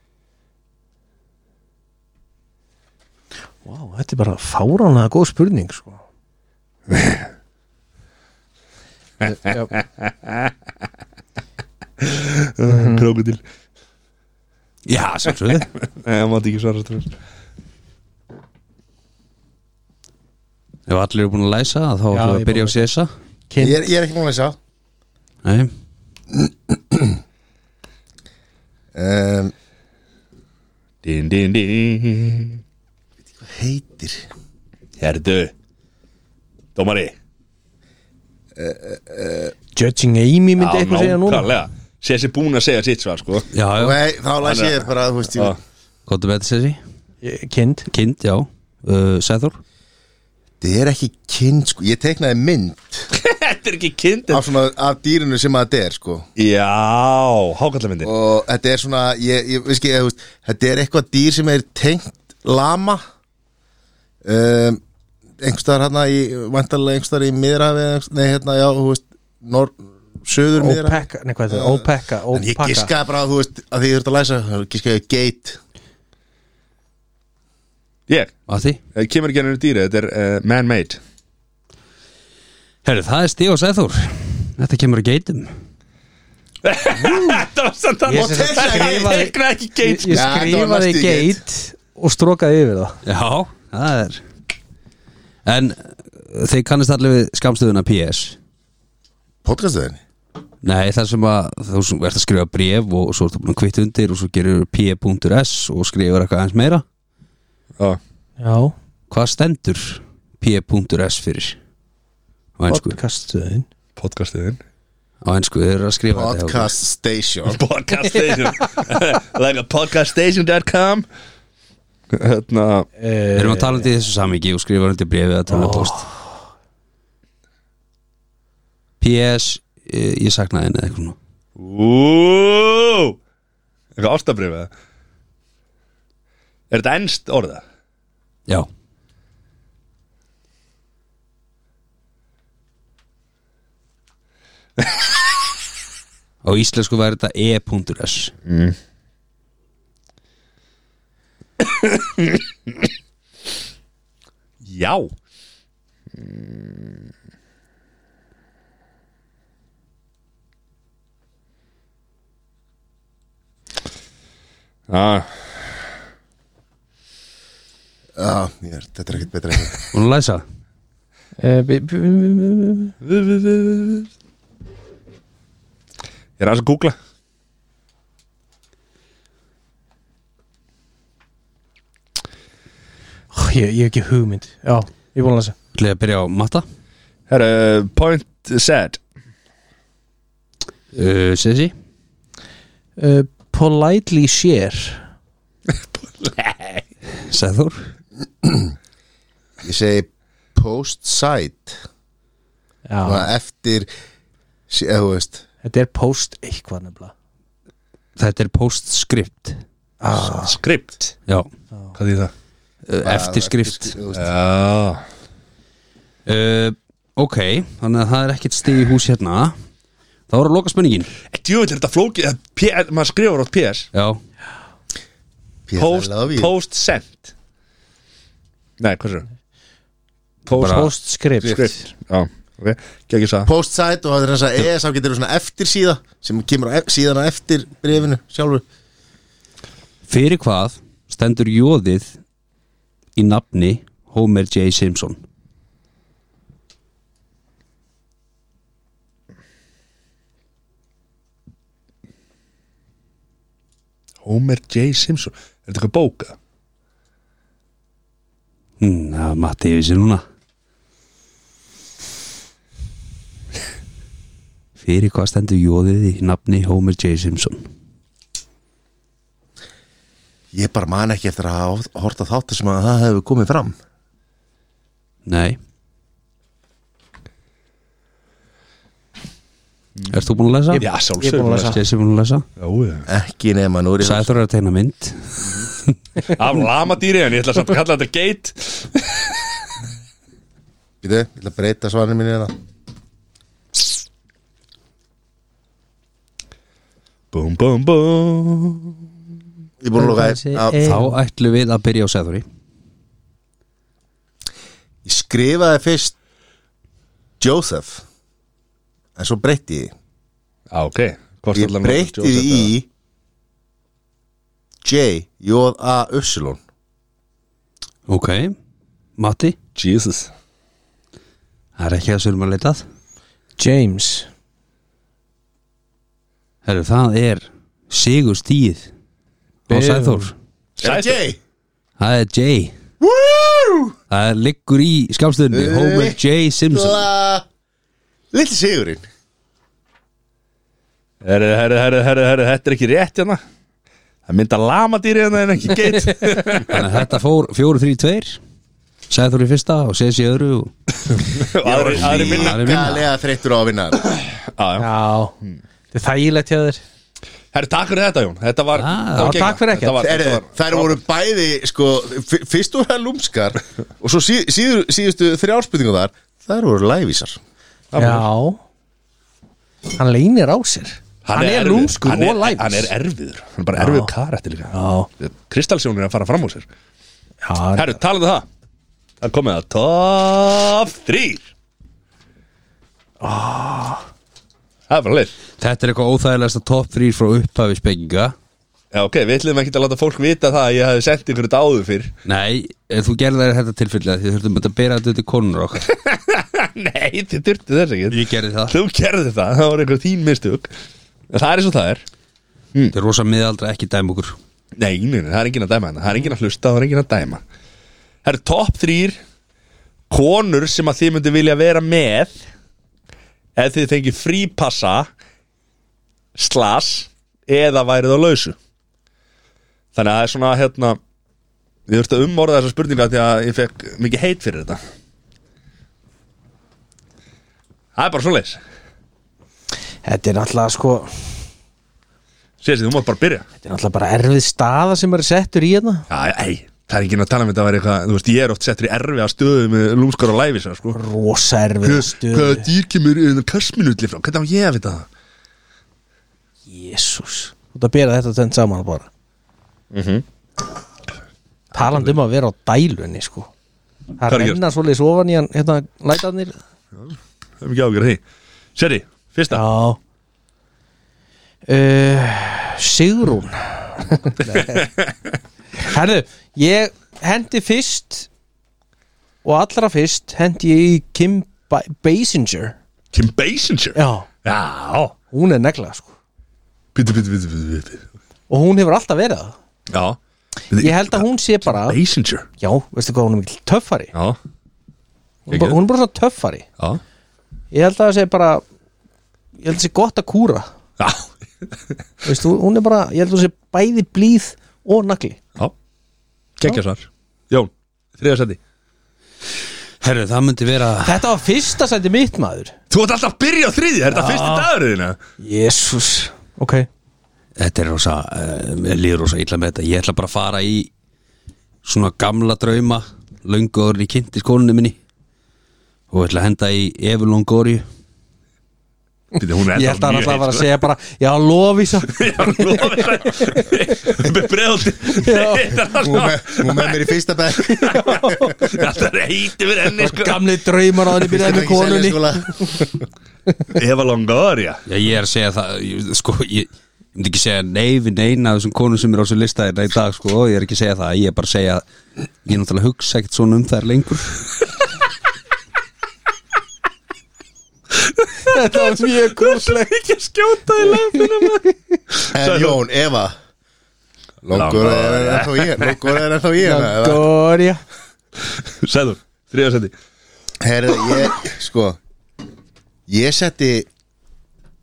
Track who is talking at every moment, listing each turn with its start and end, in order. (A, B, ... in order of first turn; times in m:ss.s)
0:03.6-0:06.0 A
0:06.9-0:07.3 B
0:09.3-0:10.5 B
0:12.0-0:13.4 B
0:12.7-0:13.1 A
0:14.9-0:15.7 C
0:15.5-0:17.2 B
0:20.9-0:23.1 C
0:22.1-0:22.9 A
0:23.5-0:23.8 A
0:23.6-0:24.6 D
0:25.4-0:25.7 C
0:26.3-0:27.2 D
0:28.9-0:29.5 D
0:31.0-0:32.6 B
0:33.4-0:34.3 D
0:35.0-0:35.5 B
0:36.8-0:37.2 B
0:38.6-0:39.5 D
0:39.8-0:41.5 A
0:40.6-0:43.5 B
0:43.5-0:44.0 C
0:43.8-0:45.6 D
0:44.4-0:45.6 B
0:46.1-0:46.8 C
0:47.2-0:47.9 A
0:47.9-0:49.6 C
0:50.6-0:53.1 D
0:53.1-0:54.4 B
0:54.3-0:56.3 D
0:56.4-0:58.1 B
0:58.0-1:03.0 D
1:04.2-1:04.8 D
1:05.4-1:15.6 D
1:10.6-1:12.9 A
1:18.5-1:18.8 C
1:19.0-1:21.0 B
1:22.8-1:25.5 C
1:26.6-1:30.5 B
1:28.1-1:33.0 A
1:28.1-1:29.2 D
1:30.1-1:31.4 D
1:33.0-1:34.2 C
1:35.5-1:38.4 C
1:39.4-1:40.0 D
1:40.6-1:46.8 C
1:48.4-1:48.7 A
1:49.1-1:51.6 C
1:52.6-1:53.0 C
1:52.7-1:53.7 A
1:54.0-1:54.6 B
1:55.2-1:56.7 C
1:56.1-1:57.6 D
1:57.5-2:01.1 B
2:02.1-2:02.9 B
2:03.0-2:03.9 A
2:03.4-2:06.0 C
2:05.5-2:06.1 A
2:09.0-2:11.2 C
2:11.6-2:13.2 B
2:14.0-2:14.7 B
2:16.7-2:17.6 B
2:26.4-2:28.3 C
2:28.5-2:28.8 B
2:31.6-2:32.9 B
2:34.6-2:35.1 B
2:36.2-2:37.0 B
2:44.9-2:45.7 B
2:48.2-2:49.8 D
2:49.9-2:50.4 C
2:51.4-2:53.0 A
2:53.0-2:54.1 B
2:56.4-2:57.0 B
3:03.3-3:05.6 A
3:05.8-3:06.6 C
3:07.3-3:09.0 B
3:10.9-3:11.7 C
3:13.0-3:15.0 A
3:15.7-3:16.8 B
3:17.3-3:17.9 C
3:18.4-3:18.7 D
3:19.6-3:21.8 D
3:22.9-3:23.3 A
3:23.0-3:23.9 D
3:24.7-3:25.4 D
3:25.6-3:27.1 A
3:28.2-3:29.6 C
3:30.0-3:30.6 A
3:30.1-3:31.2 B
3:32.0-3:32.3 B
3:32.9-3:34.0 C
3:33.0-3:34.3 D
3:34.1-3:35.0 B
3:36.3-3:39.6 C
3:40.3-3:41.1 C
3:41.3-3:43.9 B
3:43.9-3:44.2 C
3:45.7-3:46.5 D
3:45.8-3:47.3 B
3:48.8-3:49.3 B
3:50.5-3:50.9 B
3:50.5-3:50.9 C
3:50.6-3:51.9 A
3:51.4-3:53.5 B
3:53.5-3:58.6 D
4:00.1-4:02.2 C
4:03.2-4:05.2 C
4:14.2-4:16.4 B
4:18.8-4:20.2 C
4:24.8-4:27.6 C
4:30.5-4:33.8 D
4:35.3-4:35.6 C
4:40.1-4:40.9 C
4:40.7-4:41.8 A
4:40.8-4:41.7 B
4:41.6-4:42.4 C
4:42.6-4:43.1 B
4:43.1-4:44.4 D
4:44.0-4:45.7 C
4:46.3-4:49.4 B
4:51.0-4:52.5 D
4:57.3-4:59.0 B
4:59.8-5:00.8 D
5:00.0-5:01.2 A
5:00.8-5:02.4 C
5:05.0-5:06.2 D
5:07.4-5:08.0 D
5:09.2-5:09.9 D
5:10.7-5:12.7 B
5:11.5-5:12.9 D
5:14.8-5:16.6 D
5:18.1-5:18.6 C
5:19.2-5:19.6 C
5:19.8-5:20.3 B
5:21.8-5:22.8 C
5:23.6-5:24.3 A
5:26.6-5:28.9 C
5:29.7-5:30.3 C
5:29.7-5:30.3 A
5:30.8-5:31.2 B
5:30.8-5:31.4 D
5:32.0-5:32.8 C
5:33.0-5:34.0 D
5:34.1-5:37.0 C
5:35.5-5:36.2 D
5:36.7-5:37.5 D
5:38.3-5:39.0 D
5:41.2-5:43.4 B
5:44.3-5:46.8 B
5:46.7-5:48.4 C
5:49.1-5:50.7 C
5:51.2-5:52.9 B
5:51.6-5:54.0 D
5:51.8-5:53.1 C
5:54.2-5:54.9 B
5:54.8-5:55.4 A
5:55.9-5:56.8 A
5:57.5-6:01.0 B
5:58.8-5:59.5 C
5:59.2-6:00.1 A
6:00.0-6:07.4 D
6:07.9-6:08.3 B
6:08.0-6:08.6 A
6:09.9-6:12.9 A
6:11.2-6:16.7 B
6:13.8-6:14.1 A
6:14.7-6:15.1 A
6:17.4-6:18.0 A
6:17.8-6:18.5 B
6:19.2-6:21.5 B
6:23.2-6:24.1 A
6:24.9-6:25.3 B
6:25.6-6:28.4 C
6:28.9-6:32.1 B
6:32.2-6:35.9 C
6:35.9-6:40.7 B
6:38.1-6:38.8 C
6:41.3-6:42.0 B
6:42.9-6:44.4 C
6:44.8-6:47.4 B
6:48.2-6:49.2 B
6:50.1-6:52.4 B
6:53.6-6:55.1 B
6:56.4-6:58.6 B
7:00.0-7:01.0 B
7:01.9-7:04.8 B
7:08.0-7:08.6 B
7:10.0-7:11.4 A
7:12.6-7:13.5 B
7:13.6-7:16.1 A
7:16.1-7:21.0 B
7:20.9-7:22.7 A
7:21.8-7:25.1 B
7:26.7-7:29.1 A
7:29.9-7:30.2 B
7:31.7-7:33.5 A
7:31.8-7:32.2 B
7:34.2-7:36.6 A
7:34.3-7:34.6 B
7:37.0-7:38.2 B
7:38.8-7:39.6 B
7:39.5-7:40.0 A
7:41.7-7:44.9 A
7:44.6-7:45.4 B
7:45.8-7:48.3 A
7:49.4-7:52.8 A
7:53.1-7:55.2 B
7:54.0-7:54.3 A
7:55.3-7:56.1 A
7:57.0-7:58.0 B
7:58.5-7:59.6 A
7:59.9-8:00.2 B
8:00.7-8:02.5 B
8:00.8-8:02.0 A
8:02.6-8:04.1 A
8:05.5-8:06.7 A
8:05.5-8:05.8 B
8:07.7-8:08.6 A
8:09.6-8:10.7 A
8:11.0-8:11.3 B
8:12.2-8:15.4 A
8:16.6-8:18.6 B
8:20.0-8:21.2 C
8:21.0-8:22.7 A
8:22.9-8:25.2 B
8:24.1-8:24.7 A
8:25.4-8:26.9 A
8:27.6-8:30.9 C
8:31.8-8:35.0 C
8:36.1-8:37.8 C
8:39.4-8:40.7 B
8:39.7-8:42.9 A
8:42.1-8:47.0 B
8:45.1-8:45.8 A
8:46.1-8:48.0 D
8:47.7-8:48.7 A
8:47.7-8:48.0 B
8:48.6-8:50.4 B
8:50.0-8:52.7 A
8:51.2-8:53.0 D
8:53.7-8:54.8 B
8:54.9-9:01.8 C
9:02.4-9:04.4 C
9:08.0-9:12.8 B
9:08.5-9:09.9 A
9:10.9-9:11.7 A
9:12.3-9:13.4 D
9:14.4-9:17.2 D
9:14.5-9:16.0 B
9:16.6-9:17.8 A
9:18.4-9:19.9 B
9:20.6-9:22.0 D
9:23.1-9:23.9 D